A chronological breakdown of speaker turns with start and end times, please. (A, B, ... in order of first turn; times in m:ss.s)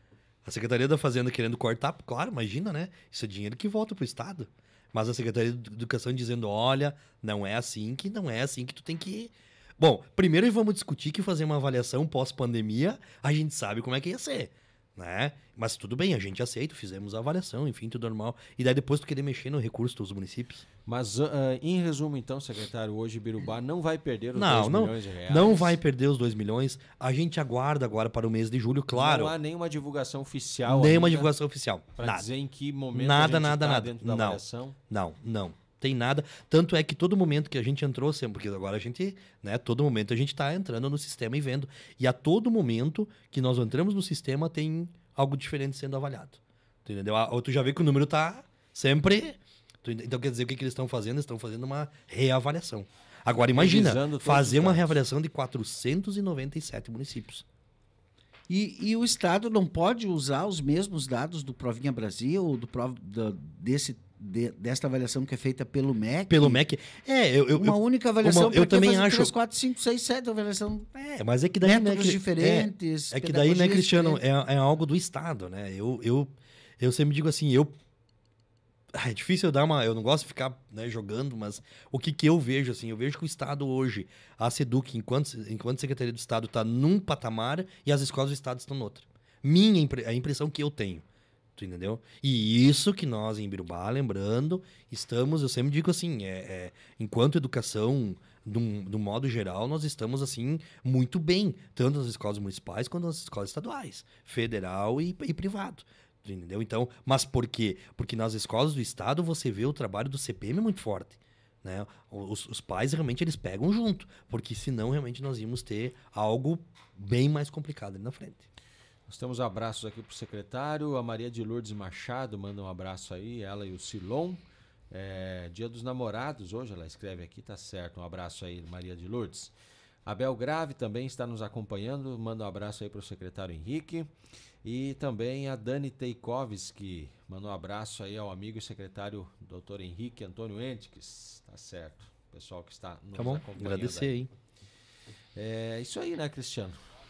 0:00.4-0:20.6 A
0:20.9-0:25.8 B
0:24.4-0:29.3 A
0:28.9-0:31.3 B
0:30.7-0:32.3 A
0:32.0-0:34.8 B
0:32.9-0:57.4 A
0:53.5-0:55.0 B
0:58.5-1:06.6 C
1:06.3-1:09.3 A
1:07.6-1:10.9 C
1:11.0-1:17.7 A
1:11.6-1:14.2 C
1:18.9-1:31.0 A
1:31.6-1:58.5 A
1:59.1-2:09.5 B
2:10.1-2:14.1 B
2:14.6-2:24.2 B
2:23.2-2:24.3 A
2:25.4-2:26.8 B